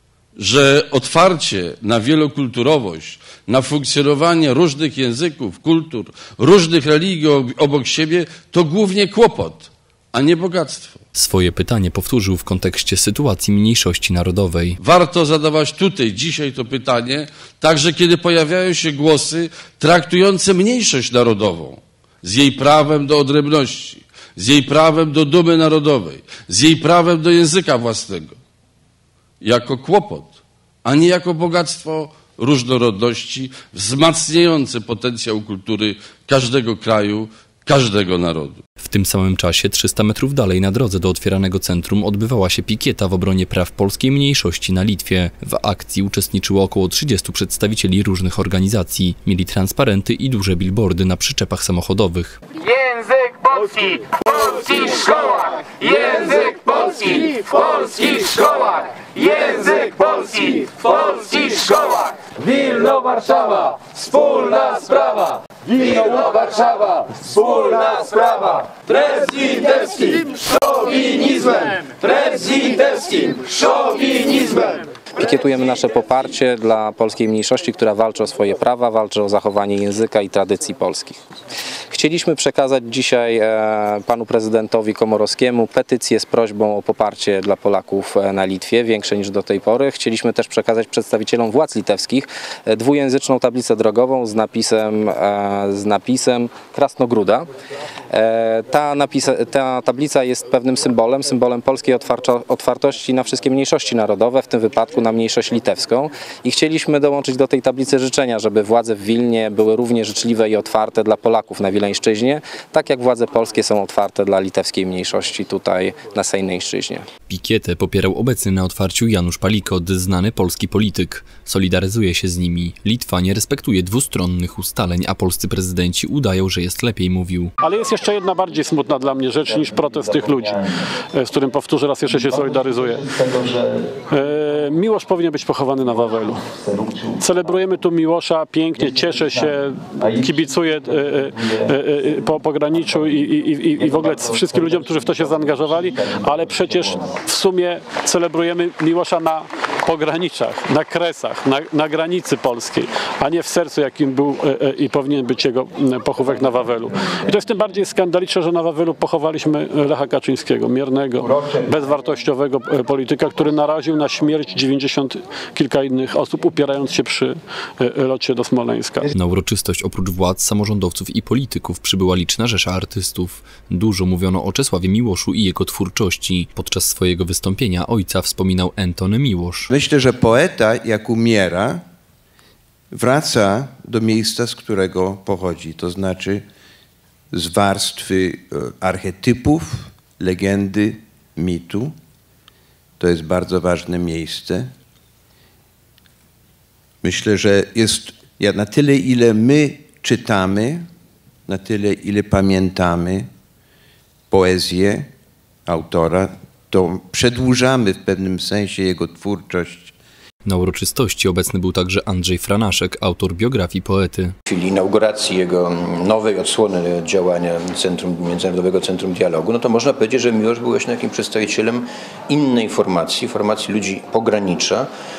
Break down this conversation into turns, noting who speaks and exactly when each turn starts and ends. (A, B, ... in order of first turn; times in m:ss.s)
0:00.4-0:11.0 A
0:11.1-0:14.8 B
0:14.8-0:28.4 A
0:29.4-0:38.6 A
0:38.8-0:52.4 B
0:52.6-1:14.8 C
1:15.2-1:21.2 D
1:21.9-1:37.4 D
1:38.1-1:57.0 D
1:57.3-2:07.5 B
2:07.6-2:49.1 E
2:49.1-2:59.7 B
2:59.7-3:01.8 F
3:02.9-3:06.4 F
3:07.3-3:11.9 F
3:13.0-3:14.7 F
3:17.0-3:20.8 F
3:21.5-3:23.3 F
3:24.3-3:25.1 F
3:25.7-3:29.9 F
3:30.4-3:34.3 B
3:34.5-3:44.9 G